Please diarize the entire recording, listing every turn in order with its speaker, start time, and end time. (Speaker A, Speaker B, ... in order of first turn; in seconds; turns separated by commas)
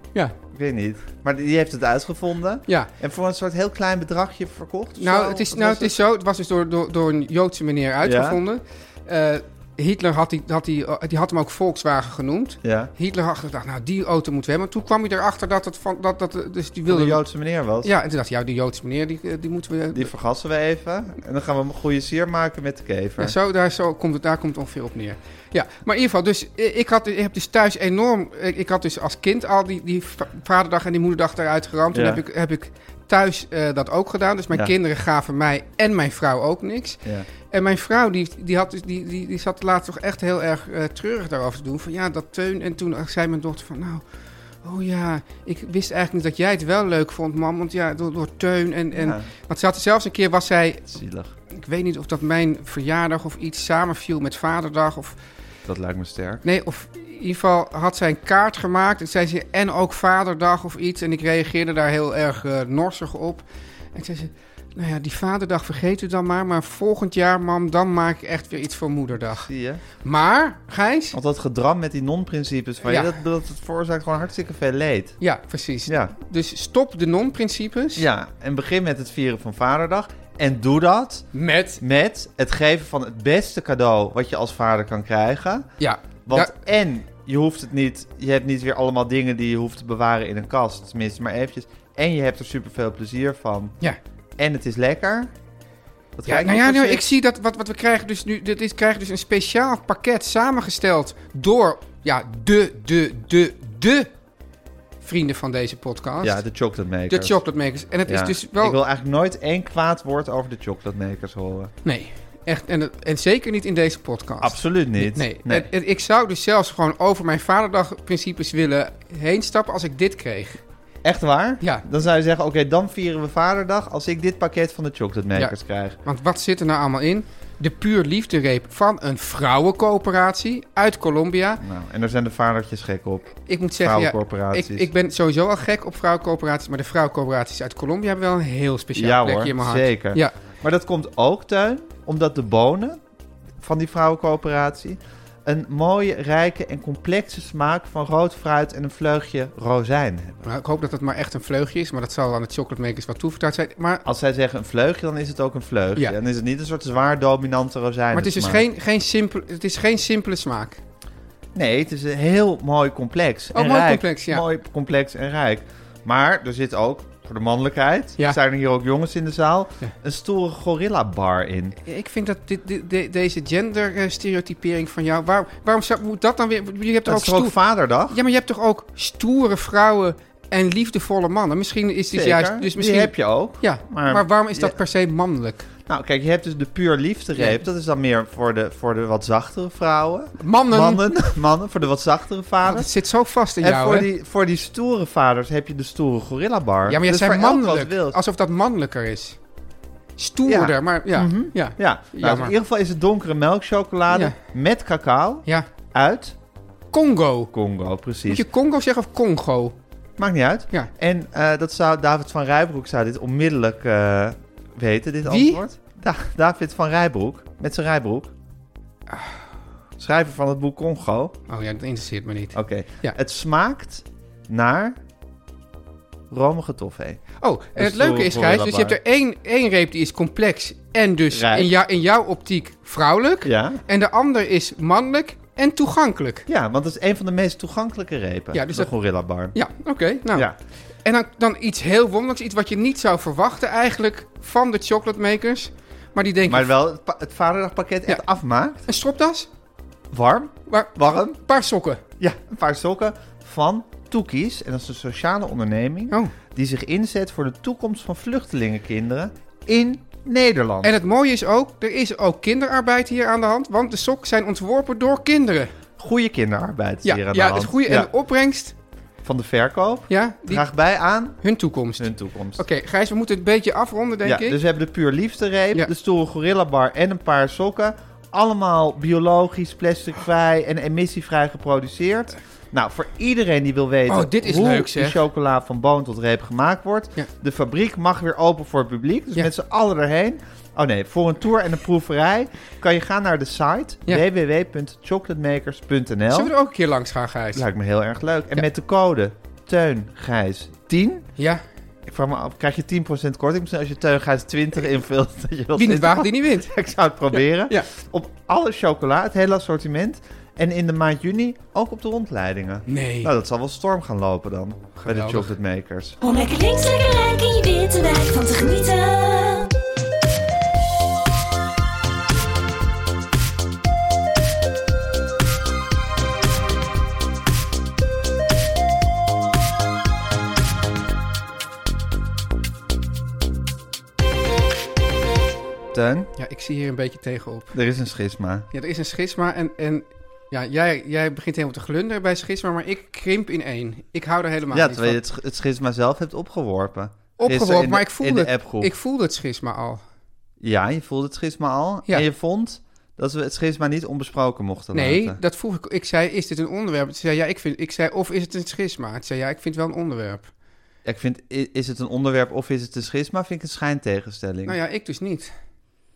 Speaker A: 0.5-6.0, Speaker B: 5.0-17.2, Speaker A: 8.0-8.4, Speaker A: 12.6-12.9, Speaker A: 16.9-17.9, Speaker B: 17.8-20.1, Speaker A: 19.9-23.4, Speaker B: 23.2-44.0, Speaker A: 31.9-32.2, Speaker B: 44.6-50.9, Speaker A: 49.0-49.3, Speaker A: 50.9-51.3, Speaker B: 51.5-55.2, Speaker A: 55.7-56.4, Speaker B: 56.4-69.5, Speaker A: 69.4-69.8, Speaker B: 70.0-71.2, Speaker A: 71.1-75.2, Speaker B: 72.8-73.1, Speaker B: 75.2-78.0, Speaker A: 75.9-76.1, Speaker A: 78.0-81.3, Speaker B: 81.3-81.8, Speaker A: 81.8-85.7, Speaker B: 85.8-86.5, Speaker A: 86.3-93.8, Speaker A: 94.4-95.3, Speaker A: 96.2-97.0, Speaker B: 96.3-104.1, Speaker B: 105.0-106.4, Speaker A: 106.2-107.4, Speaker B: 107.1-108.8, Speaker A: 108.1-111.7, Speaker B: 111.8-120.6, Speaker A: 114.4-115.7, Speaker A: 121.0-126.0, Speaker B: 121.6-121.8, Speaker B: 125.3-131.6, Speaker A: 131.6-134.9, Speaker B: 133.4-140.3, Speaker A: 138.9-143.0, Speaker A: 143.6-150.4, Speaker B: 150.4-154.1, Speaker A: 154.1-158.6, Speaker B: 158.1-160.8, Speaker A: 161.6-171.8, Speaker B: 163.5-164.4, Speaker B: 171.8-177.6, Speaker A: 177.1-178.2, Speaker B: 178.1-185.7, Speaker A: 182.1-184.8, Speaker A: 185.9-192.9, Speaker B: 187.4-187.6, Speaker B: 190.4-191.1, Speaker B: 192.6-194.1, Speaker A: 193.6-198.2, Speaker B: 196.9-199.4, Speaker B: 200.2-202.5, Speaker A: 200.4-206.4, Speaker B: 204.1-204.4, Speaker B: 206.9-207.5, Speaker A: 207.5-208.4, Speaker B: 208.3-209.8, Speaker A: 210.2-218.3, Speaker B: 215.2-215.6, Speaker B: 219.1-219.4, Speaker A: 220.0-221.4, Speaker B: 221.5-223.2, Speaker A: 222.5-225.0, Speaker A: 226.3-227.2, Speaker B: 227.4-236.5, Speaker A: 227.8-229.0, Speaker A: 231.3-231.7, Speaker A: 233.4-233.8, Speaker A: 236.5-239.6, Speaker B: 238.5-238.9, Speaker B: 239.5-240.5, Speaker B: 241.0-246.7, Speaker A: 246.5-248.8, Speaker B: 248.9-249.5, Speaker A: 250.1-251.4, Speaker B: 250.7-252.0, Speaker A: 252.2-260.9, Speaker B: 260.8-265.7, Speaker A: 266.0-268.1, Speaker B: 267.0-268.8, Speaker A: 269.2-271.4, Speaker B: 270.1-270.7, Speaker B: 271.4-274.6, Speaker A: 272.0-272.6, Speaker A: 274.2-296.5, Speaker B: 284.1-285.2, Speaker B: 296.3-297.6, Speaker A: 297.6-301.3, Speaker B: 301.4-301.6, Speaker A: 302.1-316.2, Speaker B: 305.8-306.7, Speaker B: 307.3-307.9, Speaker B: 312.9-313.3, Speaker B: 315.0-315.5, Speaker C: 316.2-319.7, Speaker A: 335.9-336.3, Speaker B: 336.4-337.7, Speaker A: 337.7-338.7, Speaker B: 338.7-345.2, Speaker A: 344.7-348.9, Speaker B: 347.4-350.0, Speaker A: 350.6-355.4, Speaker B: 354.9-360.5, Speaker A: 361.1-364.8, Speaker B: 364.7-365.5